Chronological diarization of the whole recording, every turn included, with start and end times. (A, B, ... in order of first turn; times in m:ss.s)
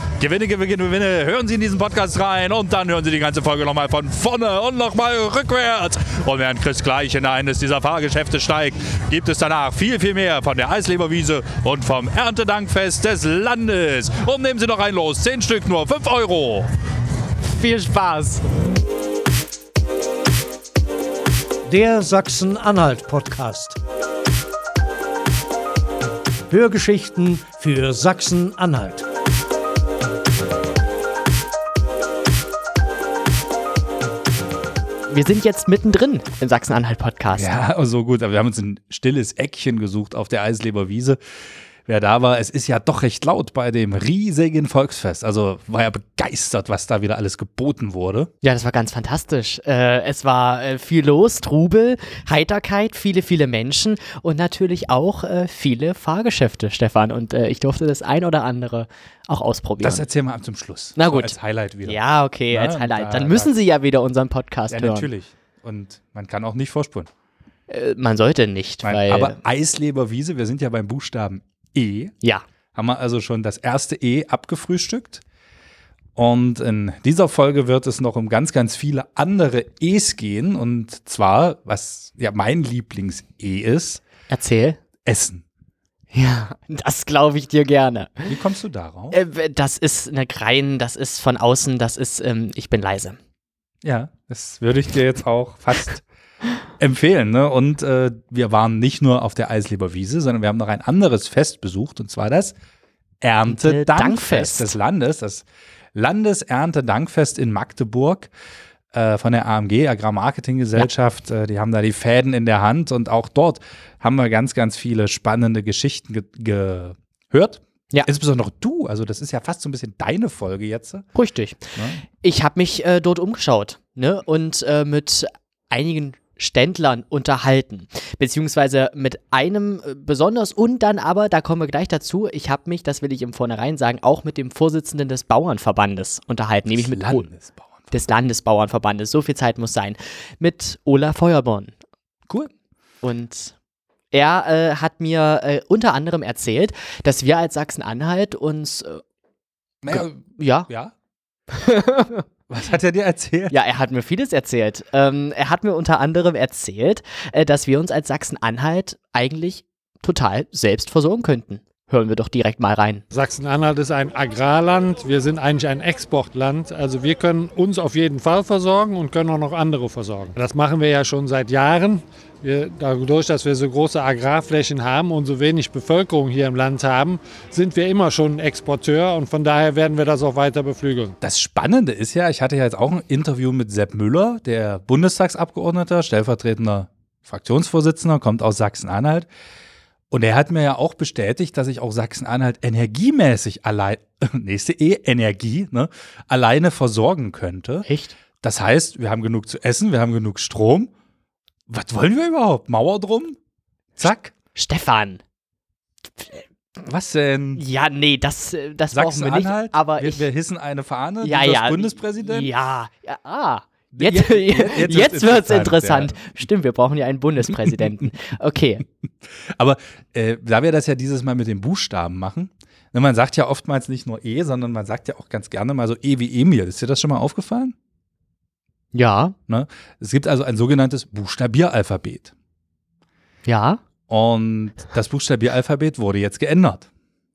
0:00.2-0:16.7 A
0:17.4-0:18.4 B
0:21.6-0:23.8 C
0:26.5-0:29.0 C
0:35.1-0:37.5 B
0:37.3-0:41.2 A
0:41.8-0:48.3 A
0:48.4-1:00.0 B
0:59.8-1:02.0 A
1:01.0-1:01.3 B
1:01.9-1:05.1 B
1:02.5-1:03.5 A
1:04.7-1:07.1 A
1:07.7-1:09.4 B
1:08.8-1:12.1 A
1:12.7-1:15.2 A
1:16.2-1:24.0 A
1:24.3-1:24.8 B
1:25.0-1:25.4 A
1:26.1-1:28.3 B
1:28.3-1:29.2 A
1:29.1-1:33.2 B
1:33.8-1:36.0 A
1:36.8-1:42.5 A
1:43.2-1:45.4 A
1:43.5-1:44.7 B
1:45.9-1:48.3 A
1:48.9-2:01.0 A
2:01.1-2:17.3 B
2:01.7-2:02.0 A
2:16.7-2:17.9 A
2:17.9-2:21.7 B
2:23.0-2:23.5 B
2:24.1-2:29.0 B
2:29.8-2:30.9 A
2:29.9-2:30.7 B
2:31.5-2:32.2 B
2:32.5-2:33.5 A
2:33.5-2:43.0 B
2:43.1-3:01.1 D
3:01.2-3:09.3 A
3:10.1-3:17.9 A
3:17.8-3:18.1 B
3:18.4-3:20.9 A
3:21.7-3:23.4 A
3:24.0-3:24.3 A
3:24.5-3:25.2 B
3:26.2-3:26.4 B
3:26.8-3:27.6 A
3:27.6-3:30.2 B
3:28.9-3:32.5 A
3:31.2-3:38.8 B
3:33.9-3:36.4 A
3:39.6-3:47.7 A
3:48.9-3:49.4 B
3:49.5-3:52.3 A
3:53.4-3:53.8 B
3:54.1-3:56.9 A